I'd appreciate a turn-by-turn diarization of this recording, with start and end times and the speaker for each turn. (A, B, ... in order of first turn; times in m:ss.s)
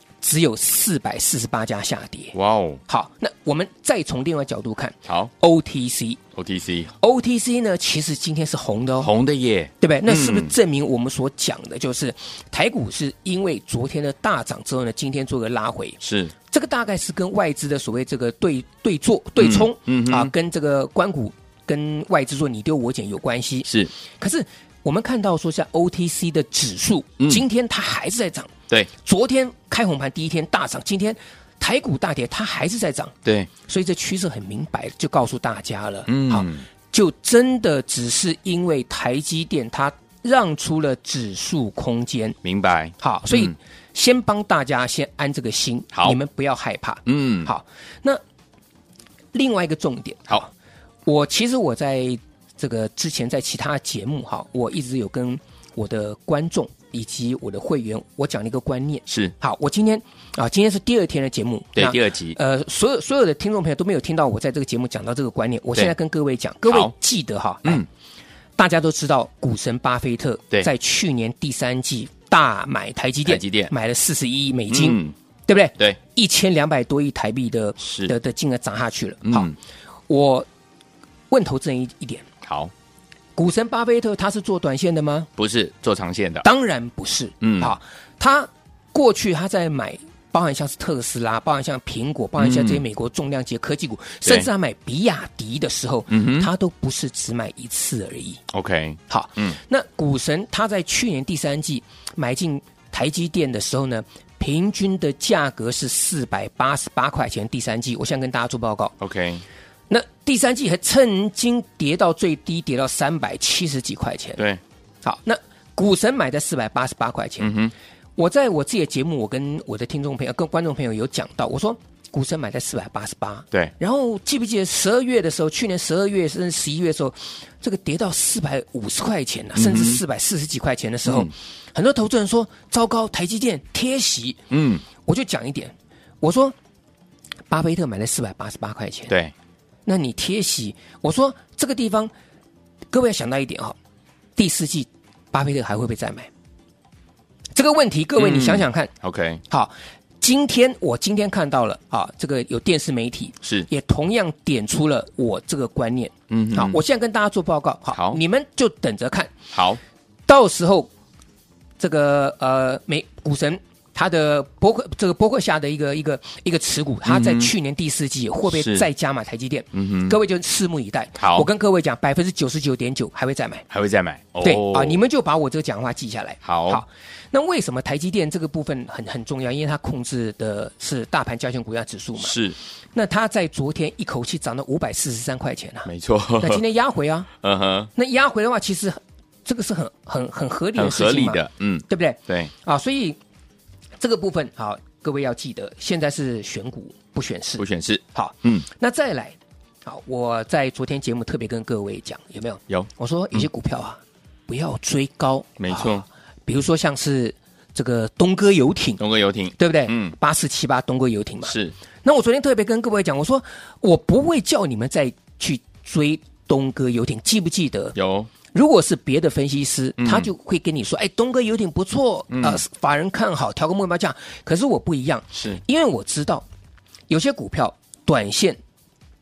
0:00.2-0:02.3 A
0:02.3-0:02.8 B
0:02.9-0:06.2 A
0:06.3-0:06.9 B
0:07.0-0:09.1 A
0:09.0-0:10.5 B
0:09.8-0:16.0 A
0:16.0-0:16.3 B
0:16.5-0:42.4 A
0:19.4-0:20.3 B
0:23.6-0:23.9 B
0:36.1-0:36.6 B
0:42.4-0:43.5 B
0:43.0-0:48.2 A
0:45.9-0:46.2 B
0:47.1-0:47.5 B
0:49.3-0:50.5 A
0:51.0-1:07.8 A
0:59.1-0:59.3 B
1:01.8-1:02.4 B
1:06.6-1:06.9 B
1:08.6-1:19.5 A
1:13.2-1:13.7 B
1:14.7-1:15.1 B
1:17.8-1:18.1 B
1:19.2-1:19.5 B
1:20.1-1:20.5 A
1:21.3-1:22.2 A
1:22.4-1:22.7 B
1:23.4-1:25.3 A
1:25.4-1:26.4 B
1:26.4-1:38.4 A
1:27.4-1:27.7 B
1:32.4-1:32.8 B
1:36.1-1:36.5 B
1:38.5-1:39.6 B
1:39.1-1:48.9 A
1:49.0-1:49.4 B
1:49.9-1:54.4 A
1:55.0-1:57.5 A
1:57.4-1:57.7 B
1:58.2-2:14.4 A
2:09.6-2:10.0 B
2:11.0-2:11.3 B
2:14.5-2:14.8 B
2:15.0-2:16.6 A
2:17.5-2:19.1 A
2:19.8-2:22.1 A
2:22.9-2:23.8 A
2:24.4-2:26.3 A
2:27.5-2:28.9 A
2:28.2-2:29.4 B
2:29.5-2:39.3 A
2:33.4-2:33.7 B
2:36.3-2:36.8 B
2:37.9-2:38.2 B
2:39.5-2:39.8 B
2:40.3-2:40.9 A
2:41.8-2:53.6 A
2:47.0-2:47.5 B
2:48.5-2:48.8 B
2:49.7-2:50.2 B
2:51.2-2:51.5 B
2:53.7-2:55.0 B
2:54.4-3:02.4 A
2:56.4-2:56.8 B
3:02.2-3:02.6 B
3:02.9-3:05.9 A
3:05.8-3:06.6 B
3:06.4-3:07.3 A
3:07.4-3:07.9 B
3:07.9-3:13.2 A
3:10.8-3:12.5 B
3:14.0-3:29.0 A
3:17.6-3:18.6 B
3:25.6-3:26.0 B
3:29.0-3:30.1 B
3:29.6-3:37.9 A
3:31.4-3:31.7 B
3:37.9-3:38.3 B
3:38.5-3:46.4 A
3:40.0-3:40.3 B
3:42.3-3:42.6 B
3:47.1-3:48.6 A